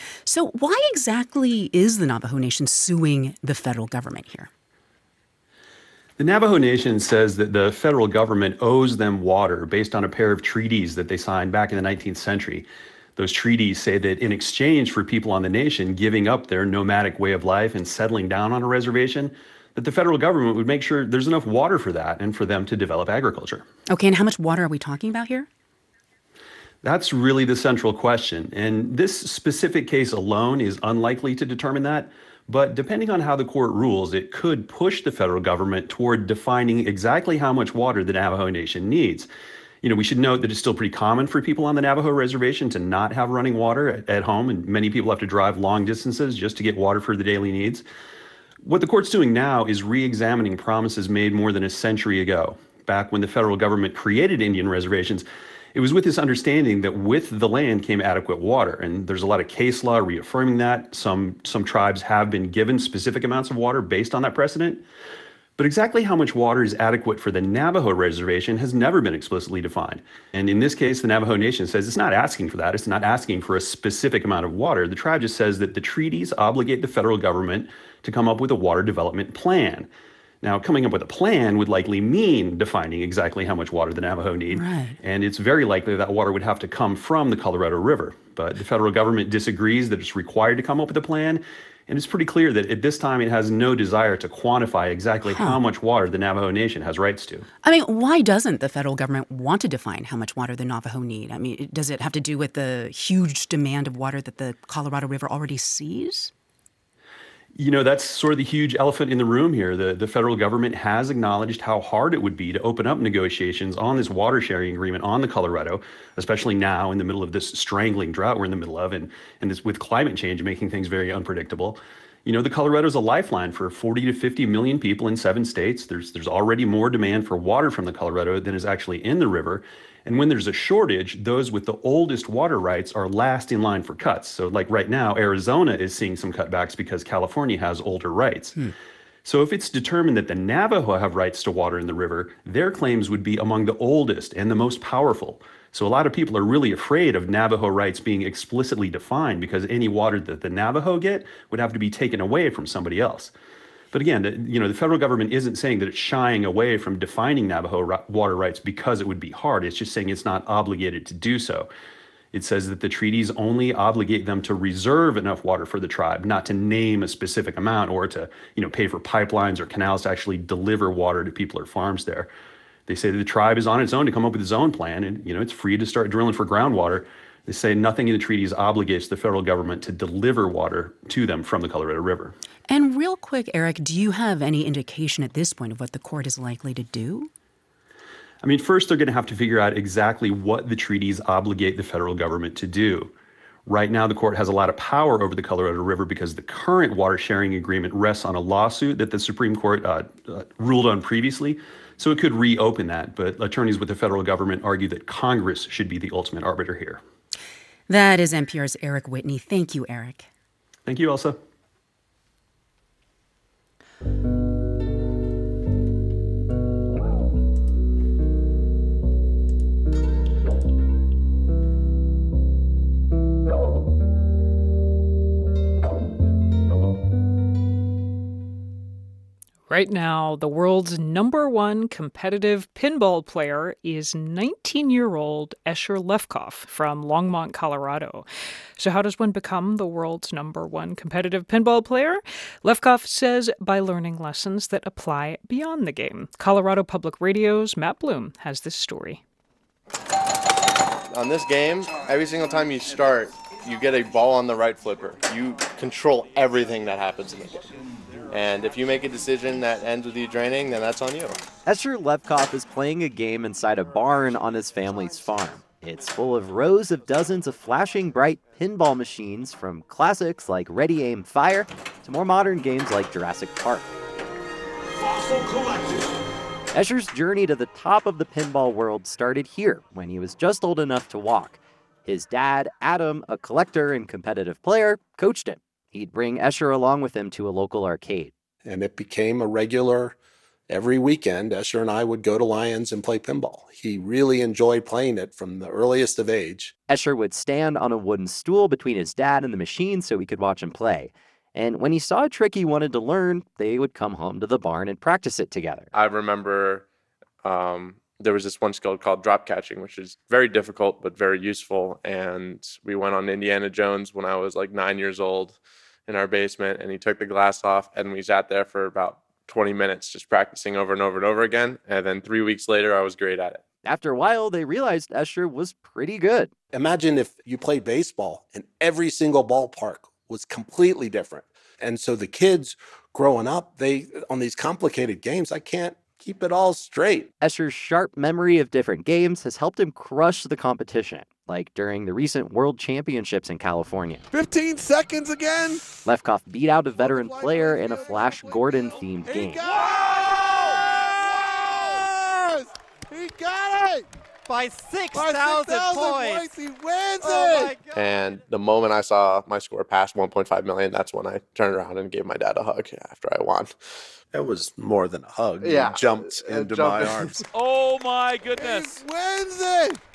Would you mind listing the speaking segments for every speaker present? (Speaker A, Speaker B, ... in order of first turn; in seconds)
Speaker A: 0.2-4.5, 23.9-25.5, 84.5-85.0, 95.2-95.6, 97.6-106.3, 182.7-187.3, 207.9-210.3
Speaker B: 6.2-23.6, 26.8-39.3, 39.8-47.8, 48.6-64.8, 65.6-79.9, 80.4-97.5, 107.5-138.6, 139.2-153.3, 153.9-161.7, 162.3-172.3, 172.9-182.3, 188.4-193.1, 193.7-207.0, 210.9-211.4
Speaker C: 229.7-238.2, 238.8-249.2
Speaker D: 251.1-257.6, 258.3-261.4, 305.9-306.9, 307.4-323.6, 357.9-363.8
Speaker E: 261.6-273.9, 276.7-288.3, 296.9-305.9, 323.8-326.5, 337.4-344.2, 346.0-349.6
Speaker F: 288.6-290.1, 290.7-296.7, 326.7-337.3, 364.3-367.4
Speaker G: 344.3-345.8, 347.3-348.4, 349.3-349.6, 352.1-354.0, 355.1-357.7, 368.6-369.9
Speaker H: 354.5-356.5, 367.6-368.9